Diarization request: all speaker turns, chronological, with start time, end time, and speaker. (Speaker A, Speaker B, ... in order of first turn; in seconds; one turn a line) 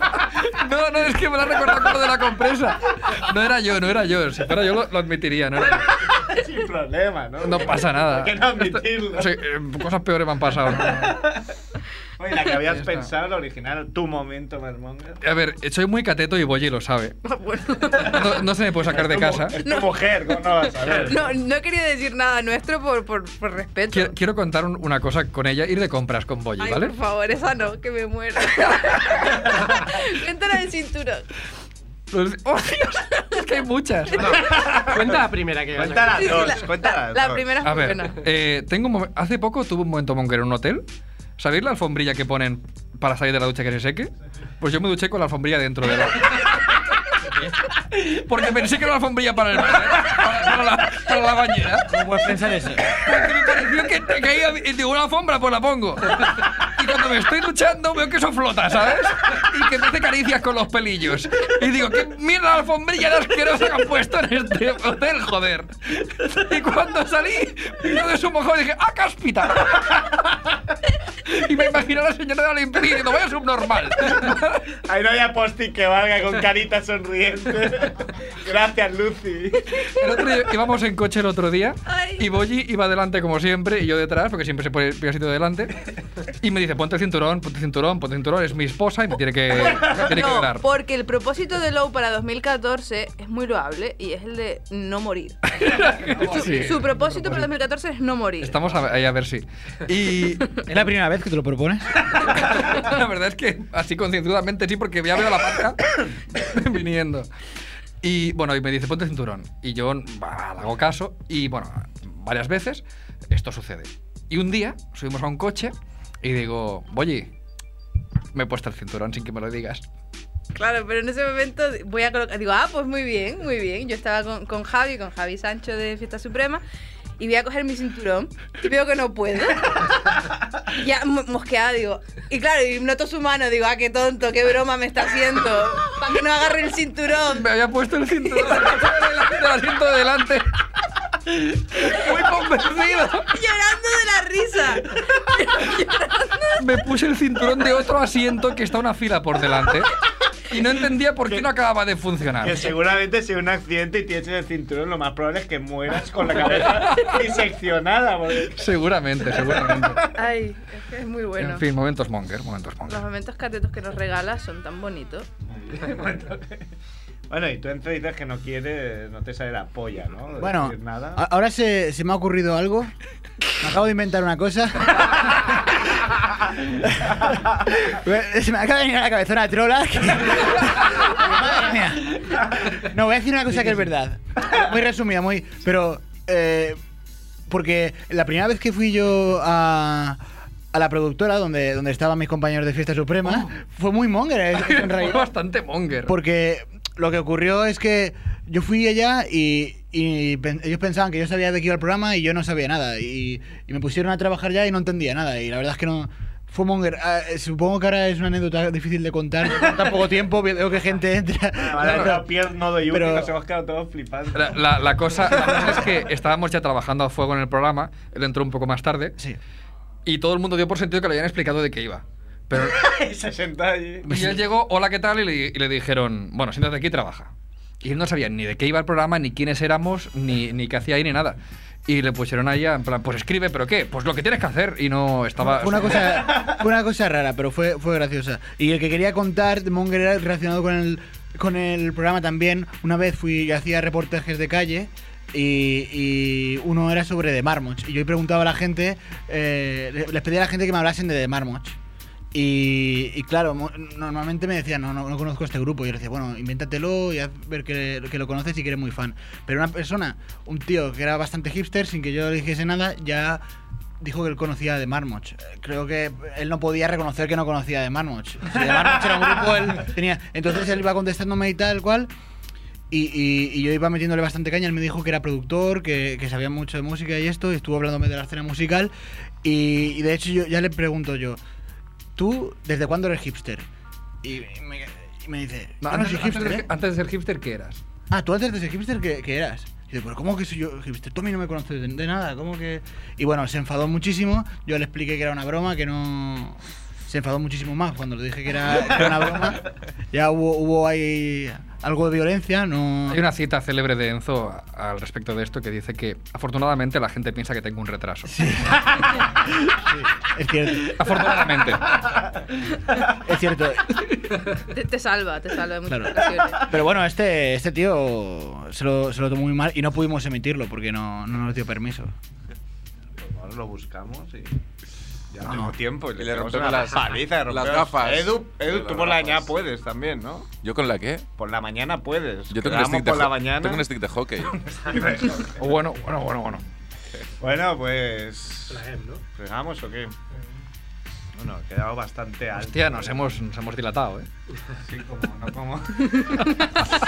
Speaker A: 0.2-6.1
Speaker B: 6.1-9.3
Speaker A: 7.4-11.2
Speaker B: 10.7-11.5
Speaker B: 12.2-15.2
Speaker A: 12.7-13.1
Speaker A: 15.2-17.2
Speaker C: 17.4-18.2
Speaker B: 17.7-21.3
Speaker A: 18.0-19.6
Speaker C: 19.6-24.1
Speaker A: 23.9-26.9
Speaker C: 26.6-31.2
Speaker A: 32.1-34.4
Speaker C: 33.1-33.5
Speaker B: 34.2-35.2
Speaker D: 34.2-36.6
Speaker B: 35.7-37.6
Speaker C: 36.1-38.2
Speaker A: 37.6-40.8
Speaker A: 41.4-46.7
Speaker A: 47.9-51.9
Speaker E: 51.9-53.0
Speaker A: 52.9-70.1
Speaker A: 71.2-74.7
Speaker B: 74.8-79.8
Speaker A: 79.8-90.6
Speaker C: 81.8-82.3
Speaker C: 89.9-98.5
Speaker A: 95.6-97.5
Speaker A: 98.4-100.6
Speaker E: 100.7-102.1
Speaker A: 102.1-107.3
Speaker A: 108.0-117.3
Speaker A: 118.3-119.8
Speaker C: 120.5-126.6
Speaker C: 127.2-137.4
Speaker A: 137.3-140.5
Speaker C: 138.3-138.7
Speaker A: 141.3-143.3
Speaker C: 143.3-146.6
Speaker A: 146.6-149.9
Speaker A: 150.5-152.7
Speaker B: 152.4-158.7
Speaker A: 156.5-157.2
Speaker A: 158.5-160.1
Speaker B: 159.3-160.0
Speaker C: 160.1-161.6
Speaker A: 161.4-163.0
Speaker C: 162.8-165.3
Speaker B: 165.5-166.6
Speaker B: 167.3-171.2
Speaker E: 170.4-172.9
Speaker E: 173.6-186.8
Speaker E: 187.5-190.2
Speaker E: 190.7-195.3
Speaker A: 193.2-193.5
Speaker A: 194.6-196.1
Speaker E: 196.1-212.3
Speaker B: 211.6-215.9
Speaker A: 211.8-212.1
Speaker E: 212.9-213.3
Speaker A: 214.3-219.2
Speaker A: 220.1-222.9
Speaker B: 222.5-224.1
Speaker E: 224.1-224.4
Speaker A: 224.1-236.2
Speaker E: 235.4-251.8
Speaker E: 252.3-263.4
Speaker E: 264.0-272.1
Speaker B: 268.8-269.2
Speaker E: 272.9-281.4
Speaker E: 282.1-283.7
Speaker E: 284.2-286.7
Speaker A: 285.8-287.8
Speaker E: 288.1-303.2
Speaker A: 303.1-308.3
Speaker E: 308.3-310.9
Speaker A: 310.9-312.0
Speaker E: 313.1-313.9
Speaker C: 314.7-316.6
Speaker E: 315.9-322.1
Speaker B: 323.2-324.6
Speaker B: 325.3-330.5
Speaker E: 325.4-325.7
Speaker F: 326.1-329.5
Speaker F: 330.6-331.2
Speaker B: 331.4-333.8
Speaker F: 332.5-334.6
Speaker B: 334.7-335.6
Speaker A: 335.5-336.6
Speaker B: 337.4-338.8
Speaker D: 338.7-339.2
Speaker B: 339.3-340.1
Speaker B: 341.3-343.4
Speaker A: 342.6-344.3
Speaker B: 344.7-346.4